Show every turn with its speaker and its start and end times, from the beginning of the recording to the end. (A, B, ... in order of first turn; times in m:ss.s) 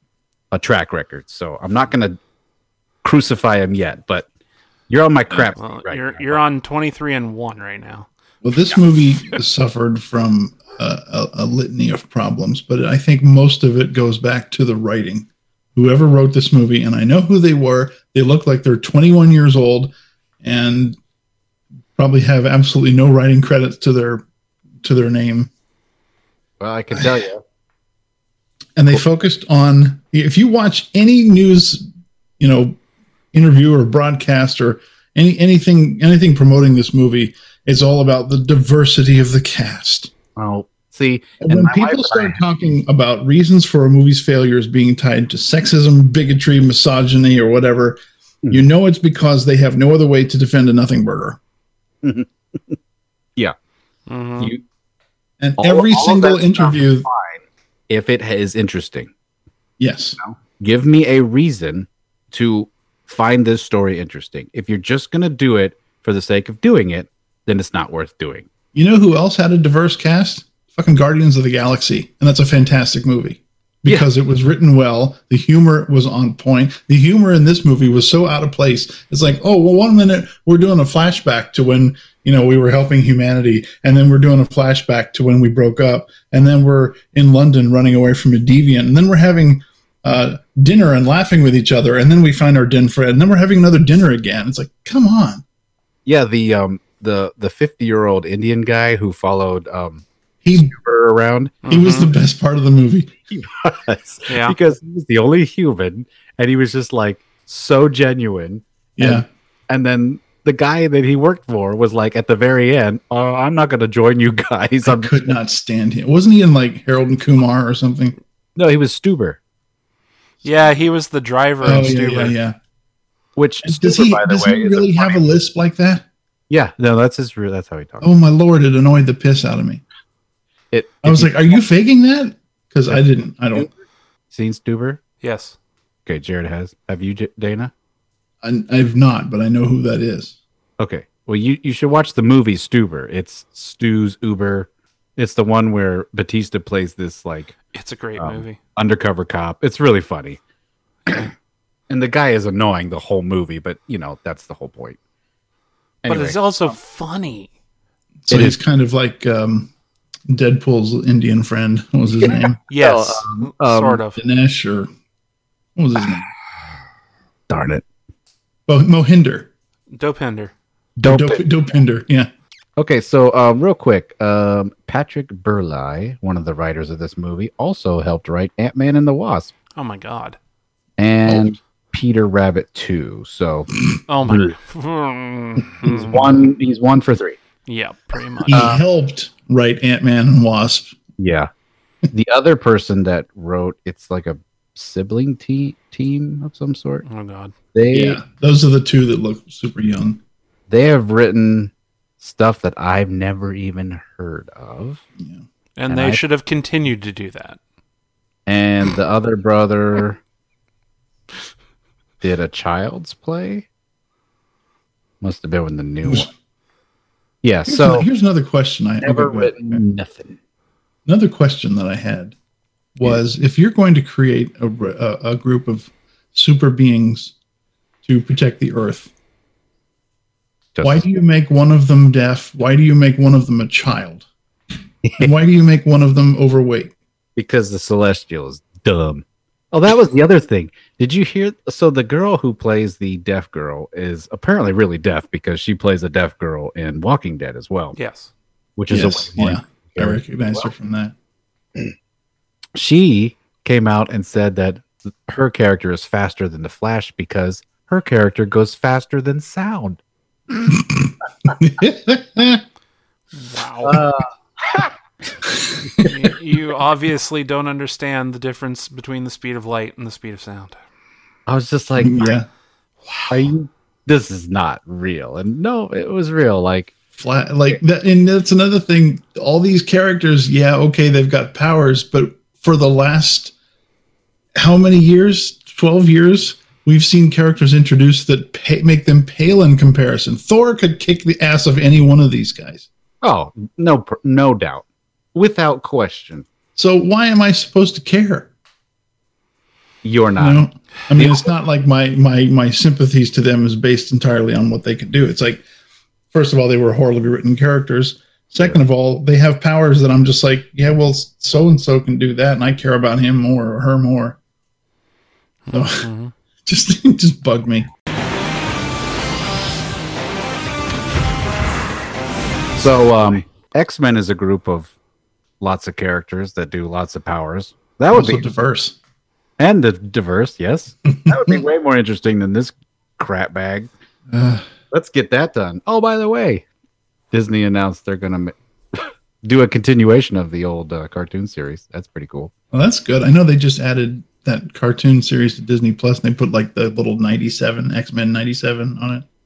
0:00.5-0:02.2 A
0:03.0-0:04.3 A
0:04.9-0:06.4 A
0:05.6-0:08.1 B
0:08.4-0:21.0 C
0:22.0-0:24.2 C
0:24.8-0:25.5 C
0:26.6-0:27.4 A
0:28.8-0:31.8 C
0:32.4-0:32.8 C
0:33.3-0:40.1 C
0:40.4-0:42.4 A
0:41.4-0:48.0 C
0:48.5-0:51.4 C
0:52.0-0:52.8 A
0:54.1-0:54.5 B
0:55.4-0:57.1 C
0:55.6-0:59.1 A
0:59.8-1:00.2 C
1:00.2-1:08.5 A
1:08.7-1:35.4 C
1:36.1-1:41.6 A
1:40.4-1:40.7 C
1:41.6-1:42.1 B
1:41.7-1:43.1 C
1:43.3-1:55.3 A
1:44.3-1:44.6 B
1:49.0-1:49.3 C
1:54.8-1:58.2 C
1:58.6-1:59.4 A
2:00.4-2:02.4 B
2:01.6-2:02.6 C
2:03.4-2:05.2 A
2:03.6-2:06.0 C
2:06.5-2:08.1 A
2:08.0-2:09.8 C
2:10.7-2:11.6 A
2:11.0-2:13.7 C
2:12.9-2:13.7 A
2:14.3-2:15.0 A
2:15.2-2:15.6 B
2:16.1-2:17.7 A
2:18.4-2:20.4 C
2:20.8-2:27.6 A
2:27.7-2:28.6 B
2:28.2-2:30.4 A
2:31.9-2:35.0 A
2:36.0-2:36.4 A
2:36.1-2:37.5 B
2:38.3-2:39.7 C
2:38.3-2:38.6 A
2:40.3-2:42.6 C
2:42.2-2:44.0 A
2:42.7-2:44.2 B
2:44.2-2:44.9 C
2:45.8-2:46.3 C
2:47.5-2:47.8 A
2:48.7-2:49.5 C
2:49.9-2:50.5 B
2:51.0-2:51.4 A
2:51.0-2:52.3 C
2:52.8-2:59.5 A
2:59.8-3:00.4 B
3:01.0-3:03.7 A
3:01.3-3:01.6 C
3:04.1-3:06.3 B
3:04.3-3:04.5 A
3:05.8-3:07.4 A
3:07.7-3:08.7 B
3:08.5-3:11.0 C
3:08.5-3:08.8 A
3:11.2-3:11.5 A
3:12.1-3:17.0 A
3:17.0-3:17.5 B
3:17.7-3:18.2 A
3:17.9-3:20.2 C
3:20.7-3:25.0 A
3:25.2-3:25.4 C
3:25.8-3:27.6 B
3:25.9-3:26.2 A
3:28.5-3:30.2 A
3:32.2-3:33.7 A
3:35.2-3:36.3 A
3:36.0-3:36.3 C
3:37.4-3:38.1 A
3:37.7-3:39.8 C
3:39.0-3:40.4 A
3:41.1-3:42.4 C
3:43.0-3:47.3 C
3:48.0-3:49.1 C
3:50.8-3:51.0 A
3:50.8-3:54.2 C
3:55.0-3:55.3 A
3:55.2-3:56.9 C
3:57.4-4:08.0 A
4:08.0-4:08.3 B
4:08.8-4:10.6 A
4:08.9-4:11.1 C
4:12.8-4:20.0 A
4:20.6-4:22.6 C
4:23.3-4:24.0 B
4:23.8-4:24.9 A
4:25.5-4:26.1 C
4:26.1-4:30.8 B
4:31.5-4:32.3 A
4:32.0-4:32.5 C
4:33.3-4:36.9 A
4:37.2-4:43.5 C
4:44.6-4:52.9 C
4:53.2-4:54.8 A
4:55.4-4:56.5 A
4:56.8-4:58.5 C
5:00.0-5:00.6 A
5:00.4-5:05.6 C
5:01.2-5:01.4 A
5:06.3-5:14.4 C
5:15.7-5:16.3 B
5:15.7-5:16.1 C
5:16.7-5:17.9 C
5:22.8-5:24.9 A
5:25.6-5:28.5 A
5:28.1-5:29.0 C
5:29.6-5:33.9 A
5:31.3-5:31.6 C
5:34.3-5:34.7 C
5:34.9-5:36.6 A
5:37.3-5:42.5 A
5:42.7-5:49.2 C